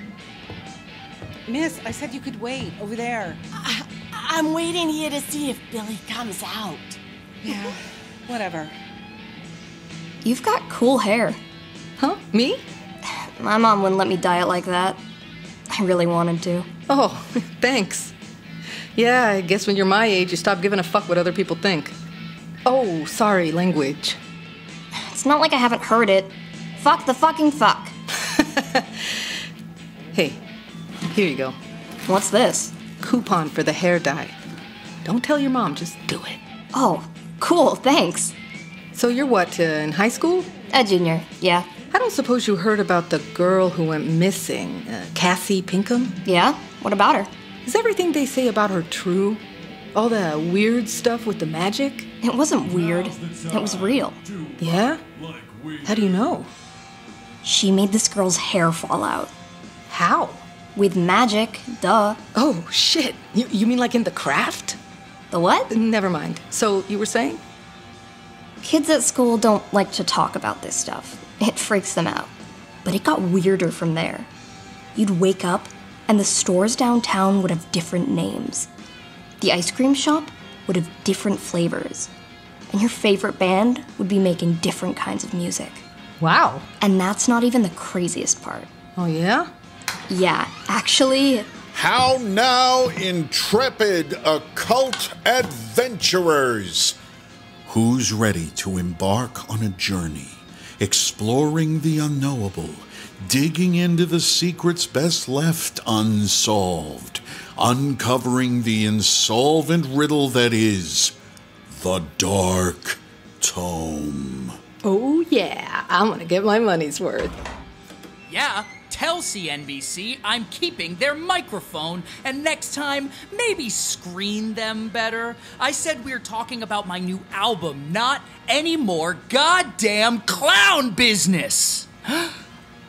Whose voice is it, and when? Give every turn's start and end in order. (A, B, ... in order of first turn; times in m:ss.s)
0:01.5-0:03.4 A
0:03.6-0:07.7 B
0:07.4-0:07.7 A
0:08.3-0:08.7 A
0:10.2-0:11.4 C
0:12.0-0:12.6 D
0:13.4-0:15.0 C
0:15.7-0:16.7 C
0:16.9-0:18.1 D
0:18.9-0:21.9 D
0:22.6-0:24.2 D
0:24.9-0:27.9 C
0:28.3-0:28.8 D
0:30.1-0:30.4 D
0:31.1-0:31.6 D
0:32.0-0:32.7 C
0:33.0-0:34.3 D
0:35.0-0:36.4 D
0:36.7-0:38.3 C
0:38.9-0:40.5 D
0:40.7-0:41.7 C
0:41.9-0:46.2 D
0:46.2-0:47.3 C
0:47.6-0:49.4 D
0:49.9-0:52.1 D
0:52.2-0:54.2 C
0:54.6-0:55.0 D
0:55.7-0:56.5 D
0:57.4-0:59.3 C
0:59.9-1:00.4 D
1:00.7-1:02.2 C
1:02.3-1:04.8 D
1:05.3-1:05.7 C
1:05.7-1:07.4 D
1:08.6-1:12.3 C
1:12.8-1:14.3 C
1:14.9-1:18.7 C
1:19.4-1:22.1 C
1:22.7-1:25.8 C
1:26.2-1:26.6 D
1:26.8-1:28.7 C
1:29.0-1:29.5 D
1:30.1-1:31.5 C
1:31.7-1:37.0 E
1:37.7-1:51.2 E
1:51.7-1:54.6 E
1:54.8-1:57.3 D
1:58.3-2:12.3 F